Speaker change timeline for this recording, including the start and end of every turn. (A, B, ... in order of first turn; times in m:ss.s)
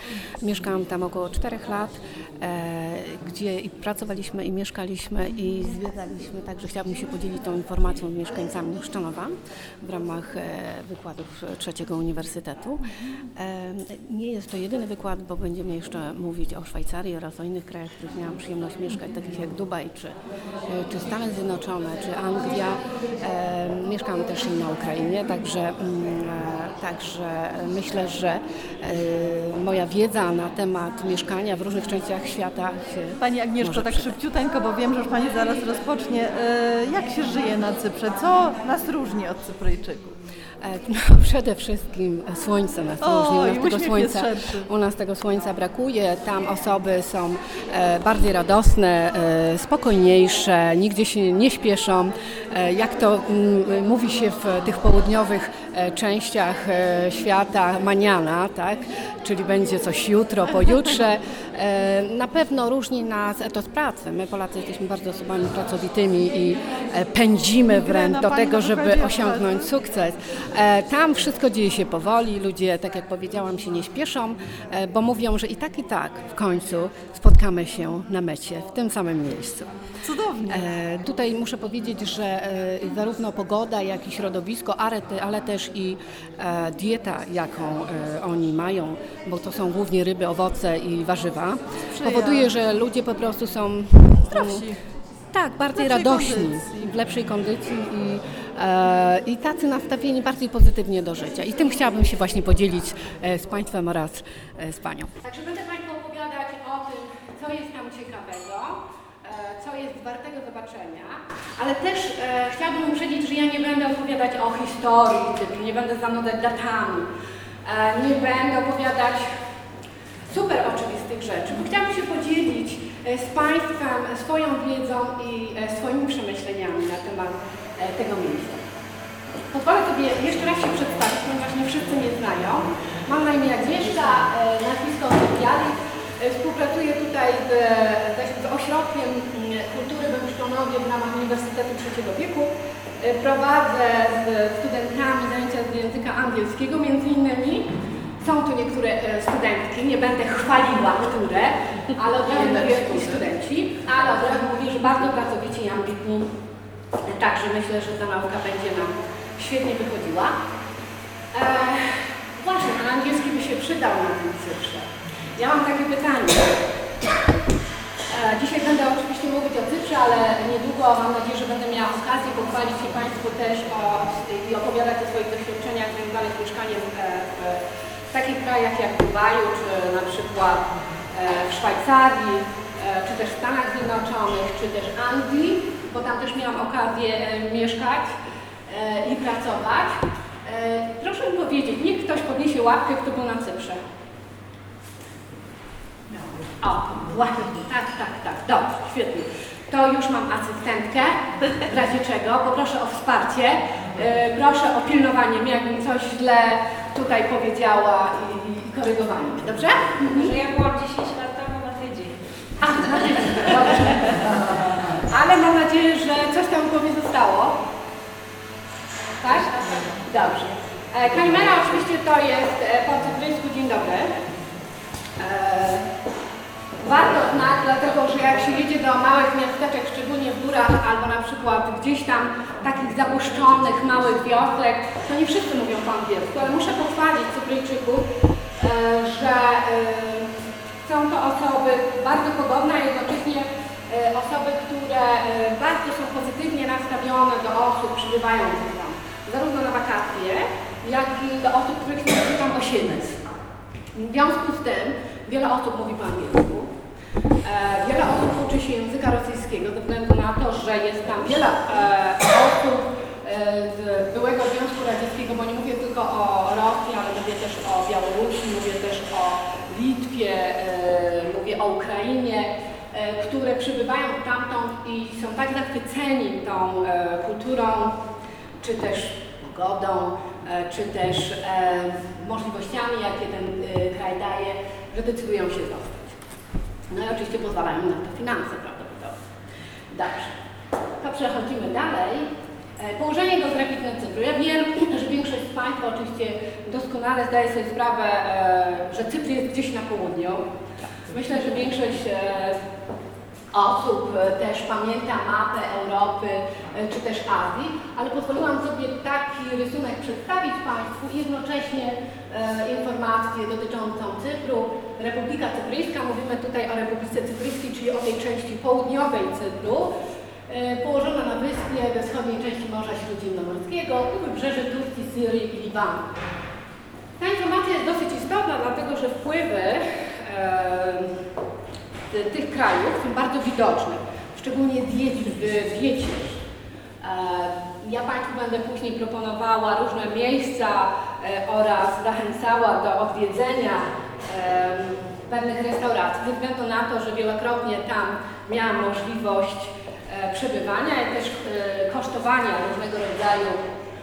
0:00.4-0:34.1 A
0:33.2-0:40.1 B
0:40.6-1:19.7 A
0:43.0-0:44.7 B
1:07.7-1:09.7 B
1:20.0-1:20.6 B
1:20.5-1:34.6 A
1:31.9-1:32.5 B
1:34.3-1:34.9 B
1:35.3-1:57.1 A
1:35.7-1:37.0 B
1:57.6-1:59.3 A
2:00.2-2:08.6 A
2:09.5-2:36.3 A
2:37.0-2:40.3 A
2:41.3-2:46.6 A
2:48.1-3:08.1 A
3:08.7-3:13.8 A
3:16.1-3:30.3 A
3:30.0-3:32.2 C
3:32.6-3:37.6 A
3:33.1-3:33.6 C
3:39.2-3:44.2 A
3:45.2-3:45.9 A
3:46.8-3:58.1 A
3:58.6-4:13.2 A
4:13.9-4:16.7 A
4:17.4-4:38.0 A
4:38.6-4:46.2 A
4:46.9-4:49.1 A
4:49.9-4:50.4 A
4:51.0-5:00.4 A
5:01.1-5:02.6 A
5:03.5-5:19.9 A
5:20.5-5:26.1 A
5:27.2-5:31.2 A
5:32.1-5:36.4 A
5:37.0-5:53.6 A